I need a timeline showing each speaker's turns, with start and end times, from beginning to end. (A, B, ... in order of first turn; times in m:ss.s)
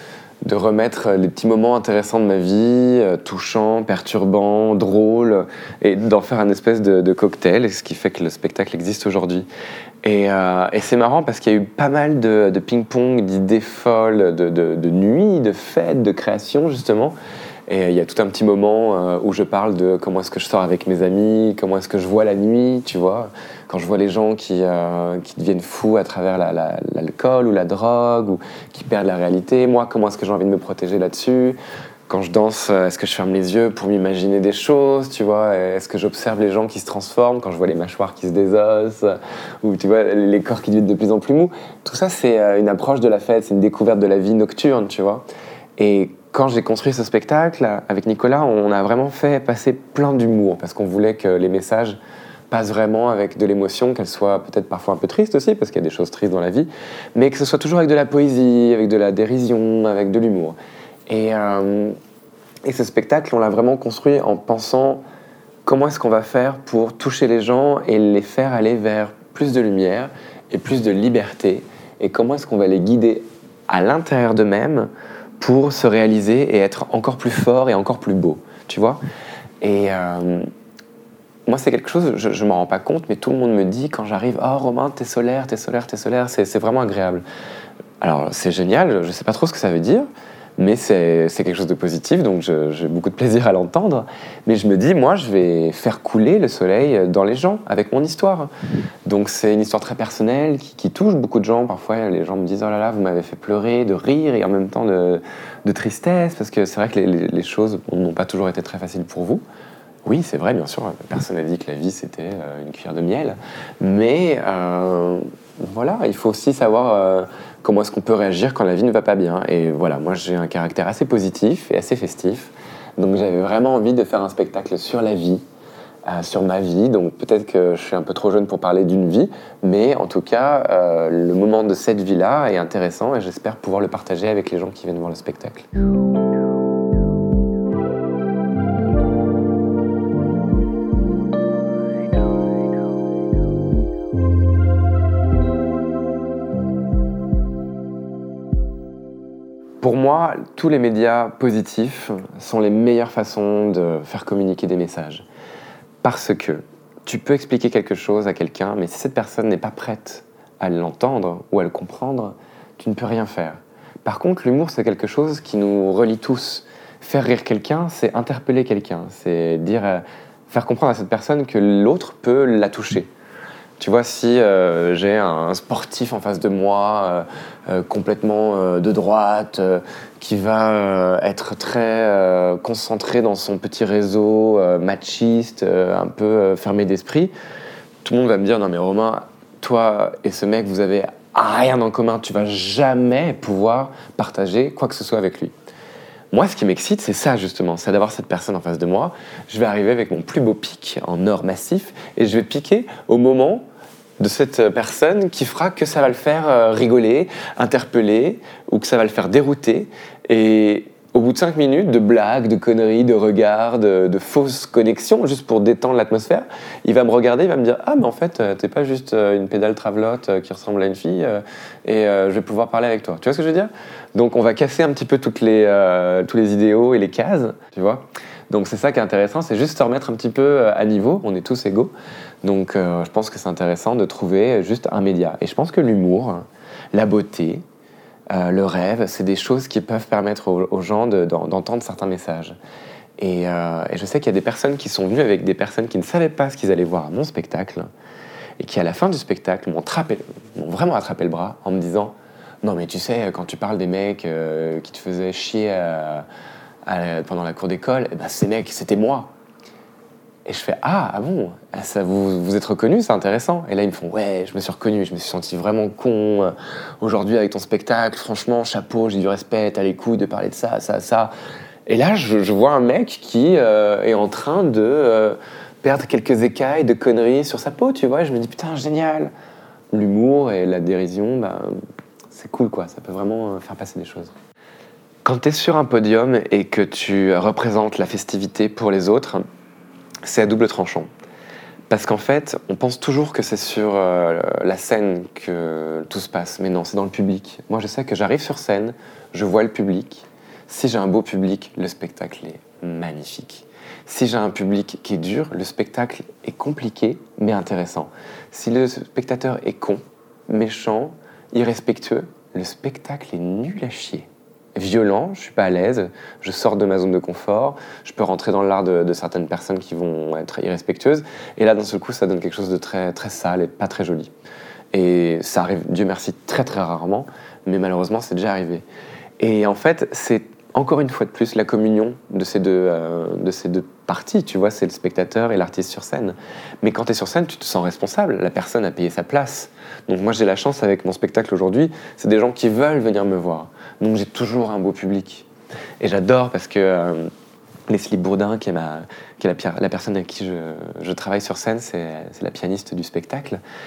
0:00.4-0:09.5 A
0:10.0-0:17.2 A
0:17.7-0:31.6 A
0:32.1-0:45.2 A
0:45.8-0:52.0 A
0:52.5-1:00.6 A
1:01.1-1:02.0 A
1:02.6-1:05.0 A
1:05.6-1:14.9 A
1:15.4-1:19.0 A
1:19.6-1:20.5 A
1:21.5-1:27.2 A
1:28.0-1:38.5 A
1:39.0-1:49.4 A
1:50.0-2:05.4 A
2:06.0-2:15.7 A
2:29.8-2:35.2 A
2:36.0-2:53.1 A
2:53.8-3:07.3 A
3:08.0-3:15.5 A
3:16.3-3:23.6 A
3:24.2-3:57.6 A
3:58.3-4:02.6 A
4:03.2-4:07.9 A
4:08.6-4:16.2 A
4:16.8-4:19.3 A
4:20.4-4:31.3 A
4:31.9-4:39.3 A
4:39.9-4:41.7 A
4:42.3-4:44.3 A
4:45.2-4:49.4 A
4:50.2-4:51.1 A
4:51.9-5:24.3 A
5:24.9-5:28.8 A
5:29.4-5:45.5 A
5:46.0-5:47.3 A
5:47.9-5:53.6 A